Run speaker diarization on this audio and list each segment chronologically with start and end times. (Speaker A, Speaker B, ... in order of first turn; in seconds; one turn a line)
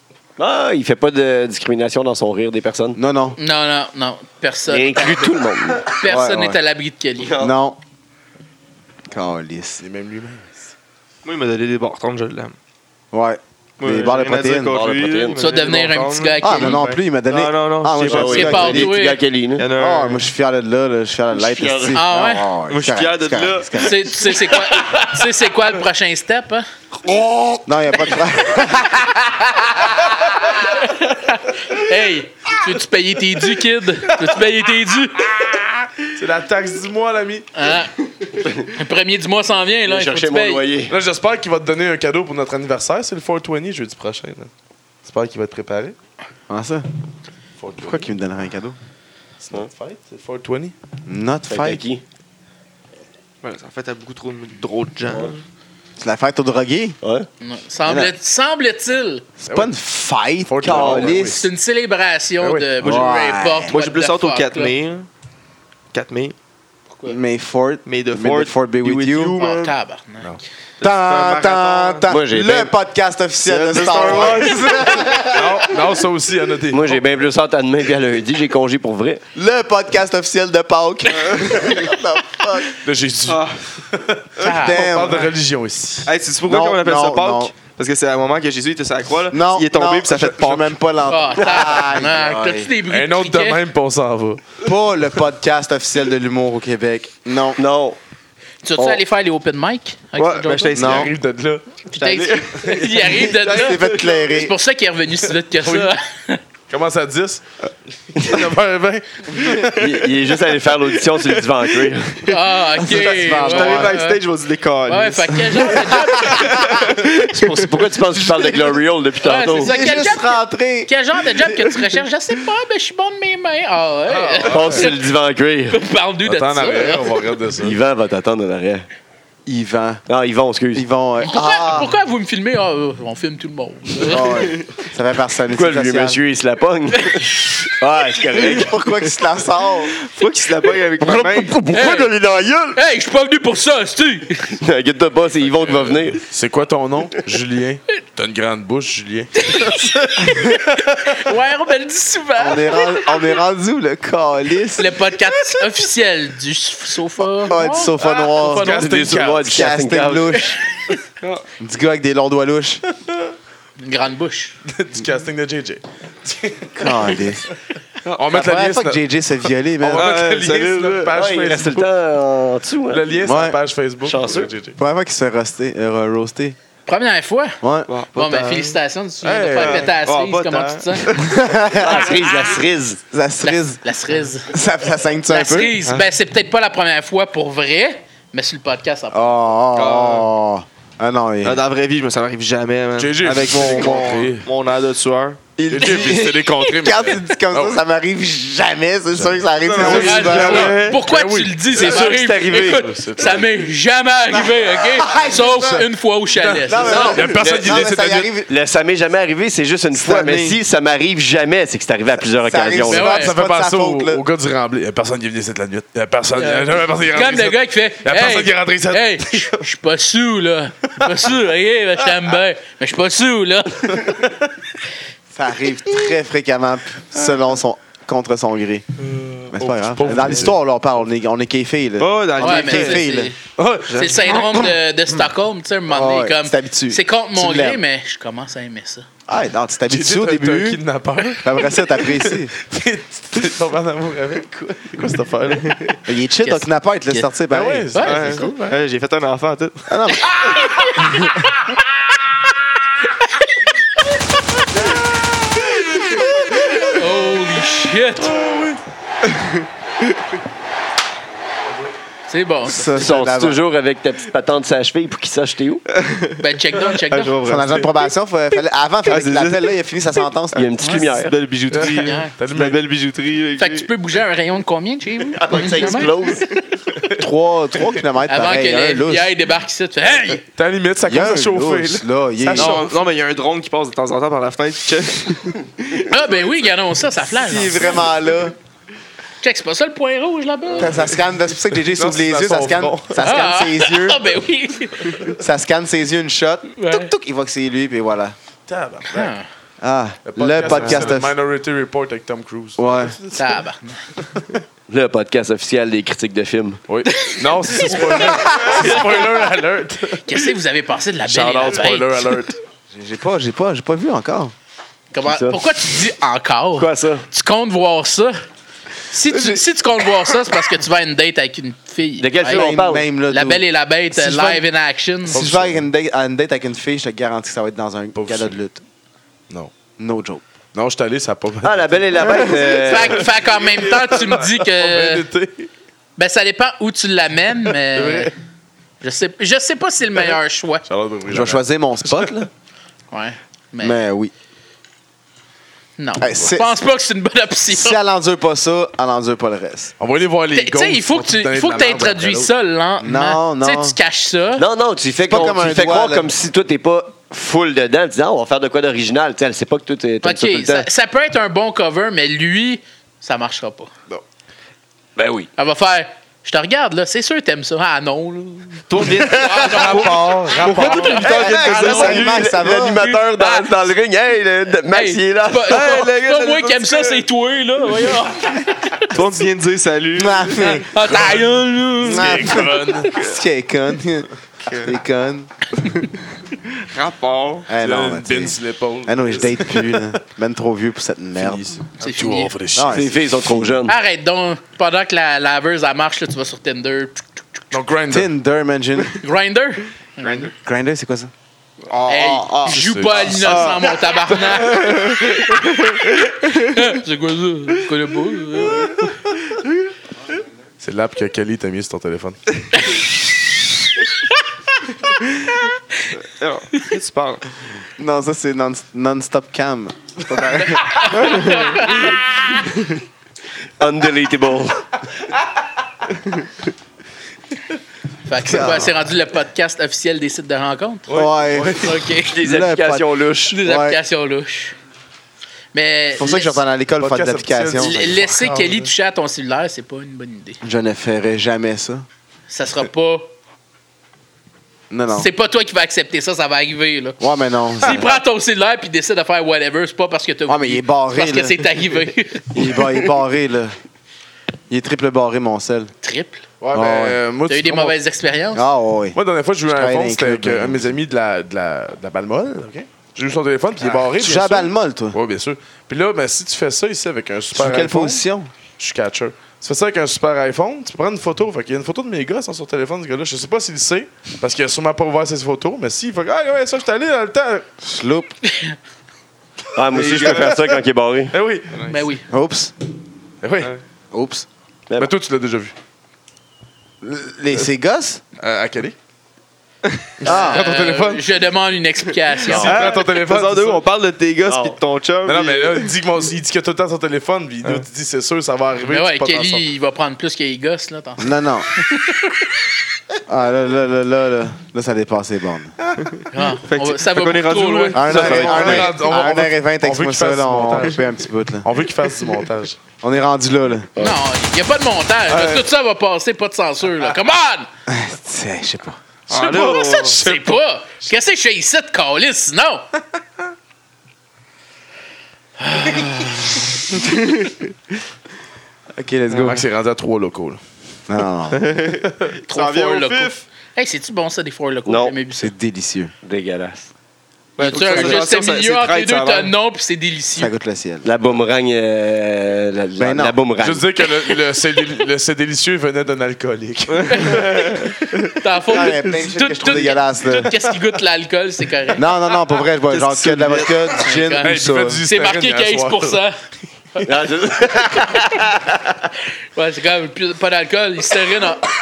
Speaker A: 0.4-3.0
Speaker B: 3.0-3.4
Speaker C: 3.4-7.4
Speaker A: 4.7-5.9
Speaker B: 6.0-6.6
Speaker B: 7.4-7.8
Speaker B: 9.1-9.8
Speaker D: 9.8-10.7
Speaker E: 11.2-12.6
Speaker B: 13.1-14.8
Speaker E: 13.8-18.9
Speaker A: 14.7-15.4
Speaker C: 15.4-16.9
Speaker B: 16.4-18.9
Speaker A: 17.9-19.6
Speaker C: 18.1-19.2
Speaker E: 19.6-20.2
Speaker B: 19.7-24.2
Speaker A: 21.4-21.9
Speaker C: 21.9-22.5
Speaker E: 22.7-23.8
Speaker C: 23.8-26.7
Speaker B: 27.6-29.1
Speaker C: 29.3-35.4
Speaker D: 36.1-37.5
Speaker C: 37.5-37.9
Speaker C: 38.6-40.6
Speaker A: 39.9-41.0
Speaker D: 40.9-44.5
Speaker D: 45.0-46.0
Speaker B: 46.5-46.9
Speaker D: 47.6-48.1
Speaker B: 47.8-48.8
Speaker D: 49.4-50.7
Speaker B: 51.1-51.8
Speaker A: 51.5-52.0
Speaker E: 53.4-55.4
Speaker B: 56.0-57.0
Speaker A: 57.0-57.3
Speaker C: 57.4-59.3
Speaker B: 57.9-58.1
Speaker B: 59.4-61.4
Speaker D: 59.5-59.7
Speaker D: 60.5-61.4
Speaker A: 60.6-61.2
Speaker C: 61.2-64.8
Speaker D: 62.4-62.9
Speaker B: 62.8-63.7
Speaker E: 63.7-65.1
Speaker E: 65.9-66.3
Speaker B: 67.1-69.4
Speaker E: 67.9-69.7
Speaker C: 69.4-70.4
Speaker E: 70.8-72.0
Speaker B: 70.8-75.7
Speaker A: 72.1-72.7
Speaker E: 73.4-75.3
Speaker D: 75.3-77.0
Speaker A: 76.7-79.2
Speaker B: 79.3-82.8
Speaker E: 81.2-81.7
Speaker D: 82.8-86.1
Speaker E: 83.3-83.7
Speaker C: 84.4-85.3
Speaker B: 84.4-85.2
Speaker E: 86.0-90.8
Speaker B: 86.5-87.5
Speaker B: 89.3-92.7
Speaker C: 91.1-93.6
Speaker E: 91.5-91.8
Speaker D: 92.8-94.4
Speaker B: 94.6-97.6
Speaker A: 97.6-98.0
Speaker C: 98.6-101.0
Speaker E: 100.2-101.1
Speaker B: 100.7-101.1
Speaker D: 100.8-101.8
Speaker C: 101.9-106.4
Speaker E: 102.0-104.3
Speaker B: 103.1-104.5
Speaker D: 105.6-105.9
Speaker D: 106.7-107.4
Speaker D: 108.1-110.0
Speaker A: 109.8-112.2
Speaker E: 111.1-112.4
Speaker C: 112.3-114.2
Speaker B: 112.8-114.0
Speaker E: 113.0-117.7
Speaker C: 114.9-116.8
Speaker B: 115.8-116.8
Speaker A: 117.1-119.7
Speaker C: 119.2-125.0
Speaker B: 119.6-121.9
Speaker D: 124.1-124.9
Speaker A: 124.5-125.8
Speaker C: 125.7-127.2
Speaker D: 126.2-127.8
Speaker A: 127.6-128.8
Speaker B: 129.4-130.0
Speaker A: 130.1-130.9
Speaker B: 130.7-131.9
Speaker C: 131.2-134.4
Speaker B: 134.0-136.2
Speaker A: 135.5-138.8
Speaker C: 137.0-137.4
Speaker B: 138.4-139.9
Speaker E: 140.0-141.6
Speaker A: 141.0-142.8
Speaker C: 141.7-142.1
Speaker C: 142.7-144.5
Speaker A: 144.6-146.2
Speaker D: 146.2-151.2
Speaker C: 149.4-153.3
Speaker B: 152.4-155.2
Speaker C: 154.8-158.9
Speaker B: 157.4-158.8
Speaker D: 158.2-159.7
Speaker A: 158.8-160.4
Speaker B: 159.5-160.6
Speaker E: 161.2-161.4
Speaker B: 161.6-162.8
Speaker C: 163.8-164.6
Speaker D: 164.7-167.3
Speaker B: 166.7-167.5
Speaker D: 168.2-169.0
Speaker B: 168.3-170.2
Speaker C: 168.4-168.7
Speaker D: 169.8-171.9
Speaker E: 169.9-171.2
Speaker A: 171.2-173.1
Speaker D: 172.9-174.8
Speaker B: 173.2-173.6
Speaker A: 174.0-174.5
Speaker B: 174.8-176.6
Speaker C: 176.9-177.6
Speaker B: 177.6-177.9
Speaker E: 177.9-178.8
Speaker C: 178.1-181.1
Speaker D: 179.2-179.9
Speaker E: 179.6-181.4
Speaker B: 181.1-182.2
Speaker A: 181.8-183.0
Speaker B: 183.1-183.8
Speaker C: 183.4-184.5
Speaker B: 184.4-185.7
Speaker C: 185.3-189.4
Speaker B: 189.1-191.6
Speaker E: 189.7-190.3
Speaker E: 191.4-195.4
Speaker D: 193.0-194.5
Speaker B: 193.6-194.1
Speaker B: 195.6-200.8
Speaker D: 195.7-197.8
Speaker C: 195.8-196.7
Speaker D: 199.1-203.5
Speaker E: 199.6-201.0
Speaker C: 199.8-207.1
Speaker A: 201.7-202.8
Speaker B: 204.3-205.9
Speaker D: 206.4-208.3
Speaker B: 206.7-208.5
Speaker A: 206.9-207.9
Speaker A: 208.5-213.1
Speaker B: 209.9-210.6
Speaker B: 212.4-214.2
Speaker C: 212.9-213.3
Speaker D: 213.0-219.6
Speaker C: 216.3-224.1
Speaker D: 221.0-221.3
Speaker D: 223.9-224.4
Speaker B: 225.3-228.8
Speaker D: 229.3-230.6
Speaker B: 229.5-233.3
Speaker E: 232.0-233.1
Speaker C: 232.4-233.4
Speaker D: 233.4-234.7
Speaker E: 233.9-234.2
Speaker C: 233.9-239.1
Speaker B: 235.9-237.8
Speaker B: 239.3-240.8
Speaker D: 239.9-245.9
Speaker B: 241.4-242.5
Speaker B: 246.1-247.9
Speaker C: 246.4-247.3
Speaker D: 247.5-248.8
Speaker C: 247.9-248.5
Speaker E: 248.0-250.0
Speaker B: 249.9-250.4
Speaker C: 250.5-251.3
Speaker C: 256.9-258.4
Speaker D: 258.2-258.8
Speaker E: 259.3-260.1
Speaker C: 262.3-262.9
Speaker B: 262.6-263.6
Speaker A: 262.9-265.8
Speaker E: 266.0-266.4
Speaker C: 266.4-267.4
Speaker E: 267.0-268.1
Speaker B: 267.4-270.6
Speaker E: 269.1-269.7
Speaker E: 270.5-273.9
Speaker A: 270.5-271.4
Speaker D: 271.7-272.8
Speaker C: 272.0-272.3
Speaker C: 273.6-276.4
Speaker A: 275.3-276.4
Speaker E: 275.6-276.6
Speaker B: 277.1-279.3
Speaker C: 278.3-280.4
Speaker D: 280.4-282.9
Speaker B: 281.1-282.8
Speaker E: 282.5-286.1
Speaker C: 286.1-288.1
Speaker B: 287.3-288.6
Speaker C: 289.4-291.1
Speaker B: 290.8-294.3
Speaker D: 291.8-293.3
Speaker C: 293.2-295.2
Speaker D: 295.0-295.3
Speaker B: 295.4-298.4
Speaker C: 296.8-297.1
Speaker D: 298.7-299.3
Speaker C: 299.1-299.4
Speaker B: 299.8-301.3
Speaker D: 300.2-303.6
Speaker E: 300.7-301.1
Speaker B: 302.8-303.1
Speaker C: 303.4-304.0
Speaker A: 304.9-306.8
Speaker D: 306.9-310.4
Speaker C: 307.1-309.0
Speaker C: 310.3-312.4
Speaker D: 311.2-312.6
Speaker B: 312.9-314.5
Speaker C: 315.1-318.4
Speaker A: 315.2-315.6
Speaker A: 316.8-317.2
Speaker C: 319.1-322.7
Speaker A: 322.2-323.1
Speaker B: 322.4-324.6
Speaker C: 323.3-325.4
Speaker D: 325.3-325.8
Speaker B: 325.3-328.8
Speaker D: 328.1-328.6
Speaker B: 330.0-330.4
Speaker D: 330.7-332.4
Speaker A: 331.6-333.3
Speaker C: 332.6-335.3
Speaker D: 332.9-335.7
Speaker C: 336.2-338.3
Speaker D: 337.9-338.3
Speaker C: 339.0-340.9
Speaker D: 340.9-342.3
Speaker B: 341.3-342.5
Speaker C: 343.1-344.0
Speaker B: 343.8-344.3
Speaker C: 346.0-348.0
Speaker B: 346.2-346.8
Speaker B: 347.7-349.9
Speaker D: 350.0-352.5
Speaker C: 350.5-354.6
Speaker B: 353.0-353.9
Speaker A: 354.6-360.9
Speaker B: 355.3-356.3
Speaker C: 360.2-363.9
Speaker A: 365.1-365.5
Speaker C: 365.6-373.9
Speaker E: 368.9-372.4
Speaker D: 369.0-371.4
Speaker A: 371.2-376.1
Speaker B: 371.4-373.0
Speaker C: 374.9-379.2
Speaker E: 375.6-377.2
Speaker E: 379.1-380.8
Speaker B: 380.1-381.3
Speaker C: 380.6-383.2
Speaker D: 381.1-381.5
Speaker B: 382.0-385.5
Speaker D: 382.1-383.2
Speaker E: 384.6-385.0
Speaker E: 386.8-387.7
Speaker B: 387.7-391.6
Speaker D: 387.8-390.1
Speaker D: 391.4-393.1
Speaker C: 392.0-392.5
Speaker B: 392.7-393.1
Speaker A: 392.9-393.9
Speaker C: 393.9-397.4
Speaker D: 397.7-398.3
Speaker B: 398.1-399.2
Speaker C: 399.1-400.5
Speaker E: 400.2-400.5
Speaker B: 400.6-401.3
Speaker E: 401.9-402.2
Speaker B: 402.1-402.8
Speaker C: 402.1-409.2
Speaker D: 402.7-403.7
Speaker E: 403.3-406.7
Speaker D: 410.8-412.4
Speaker E: 416.2-417.5
Speaker B: 418.0-421.5
Speaker C: 420.5-422.7
Speaker A: 423.8-424.9
Speaker C: 428.3-431.1
Speaker B: 428.5-428.9
Speaker D: 431.1-432.0
Speaker B: 431.1-434.0
Speaker C: 431.7-432.4
Speaker A: 432.3-433.6
Speaker C: 433.5-434.8
Speaker C: 435.7-436.6
Speaker B: 436.1-438.1
Speaker D: 437.0-438.9
Speaker C: 437.8-440.6
Speaker B: 440.6-442.1
Speaker C: 442.5-443.3
Speaker B: 444.9-445.3
Speaker C: 445.1-447.2
Speaker B: 447.2-448.1
Speaker C: 447.8-452.9
Speaker B: 450.5-451.7
Speaker B: 452.5-453.8
Speaker B: 454.7-455.9
Speaker C: 456.0-456.4
Speaker D: 456.6-457.9
Speaker B: 456.7-457.2
Speaker C: 457.5-458.7
Speaker B: 458.5-459.2
Speaker D: 459.1-468.2
Speaker B: 459.7-461.0
Speaker B: 464.0-465.2
Speaker B: 467.5-468.5
Speaker D: 468.8-477.7
Speaker B: 477.8-478.4
Speaker C: 478.4-478.8
Speaker A: 479.7-481.3
Speaker D: 479.9-480.6
Speaker E: 480.1-480.4
Speaker D: 481.3-481.9
Speaker C: 481.9-482.2
Speaker B: 482.3-482.7
Speaker D: 483.4-483.7
Speaker B: 484.1-484.4
Speaker D: 484.9-485.7
Speaker B: 487.0-488.2
Speaker D: 488.4-488.9
Speaker D: 490.2-491.3
Speaker B: 490.2-490.6
Speaker C: 490.3-492.9
Speaker D: 492.4-493.9
Speaker E: 492.6-495.9
Speaker A: 494.4-494.8
Speaker D: 495.2-499.6
Speaker C: 498.9-502.4
Speaker B: 501.2-501.7
Speaker B: 503.3-505.7
Speaker E: 506.1-508.9
Speaker C: 506.3-508.8
Speaker B: 507.9-511.7
Speaker D: 508.1-511.0
Speaker A: 508.5-508.9
Speaker D: 511.6-512.8
Speaker B: 513.0-514.0
Speaker C: 514.0-517.7
Speaker B: 515.3-515.6
Speaker B: 517.9-519.0
Speaker E: 519.3-520.2
Speaker C: 519.3-522.9
Speaker D: 519.4-520.5
Speaker C: 525.6-526.1
Speaker B: 528.9-529.6
Speaker E: 529.3-529.6
Speaker D: 529.4-530.6
Speaker B: 531.1-531.8
Speaker E: 531.5-533.4
Speaker D: 532.0-532.3
Speaker C: 532.5-535.5
Speaker A: 534.9-535.1
Speaker B: 535.4-536.1
Speaker A: 536.2-536.9
Speaker E: 537.6-539.5
Speaker C: 537.6-540.5
Speaker B: 540.4-541.1
Speaker A: 541.0-544.0
Speaker B: 543.0-543.4
Speaker D: 543.6-547.6
Speaker E: 547.0-548.4
Speaker C: 547.1-547.6
Speaker C: 548.4-552.1
Speaker B: 548.7-550.5
Speaker B: 552.0-555.0
Speaker E: 552.9-554.0
Speaker C: 554.0-556.4
Speaker D: 554.4-556.2
Speaker C: 556.9-558.5
Speaker A: 557.0-558.9
Speaker C: 559.5-561.7